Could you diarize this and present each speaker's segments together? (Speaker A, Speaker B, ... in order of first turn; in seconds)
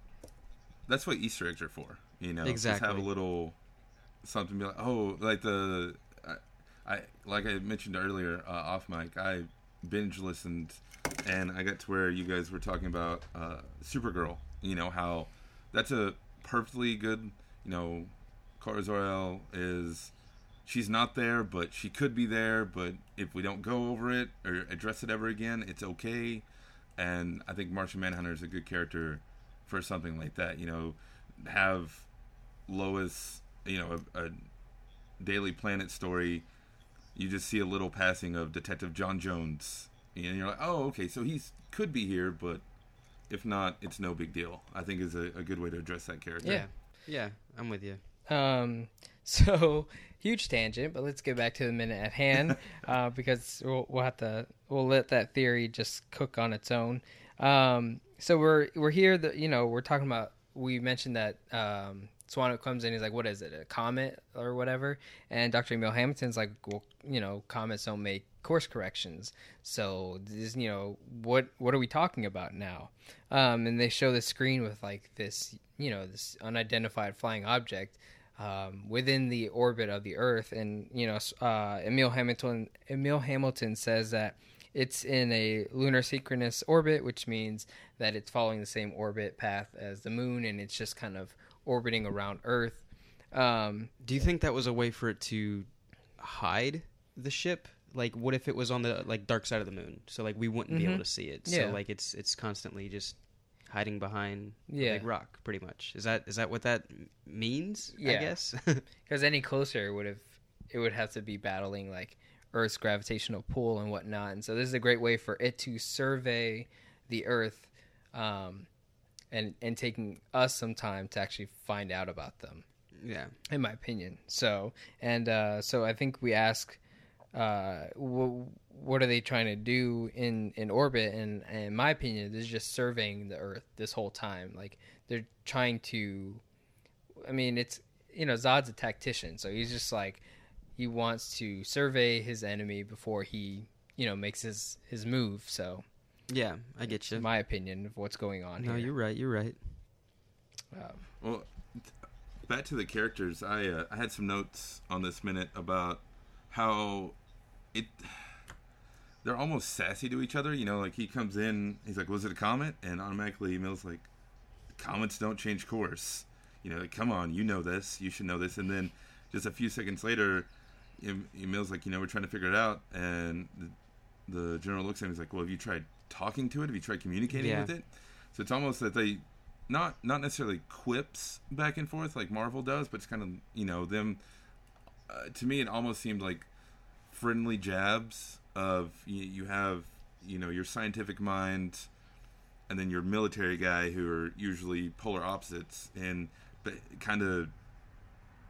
Speaker A: 0.9-3.5, 4.2-20.1, 20.6-26.4, 27.0-32.1, 32.7-34.4, 35.2-36.4, 37.1-42.6, 43.3-46.6, 151.2-151.9, 152.4-157.2, 157.7-158.3, 159.2-164.1, 164.7-173.8, 174.3-184.2, 185.1-186.5, 187.1-191.9, 192.7-197.5
Speaker B: 2.4-3.1, 46.4-48.0, 94.0-108.8, 123.0-123.3, 146.3-147.2, 148.6-149.8, 177.3-177.7
Speaker C: 48.3-93.9, 100.7-101.8, 104.7-105.1, 108.0-108.4, 109.0-118.7, 119.3-122.6, 123.5-126.8, 127.3-136.4, 137.2-140.2, 140.8-145.8, 146.8-148.9, 150.7-151.0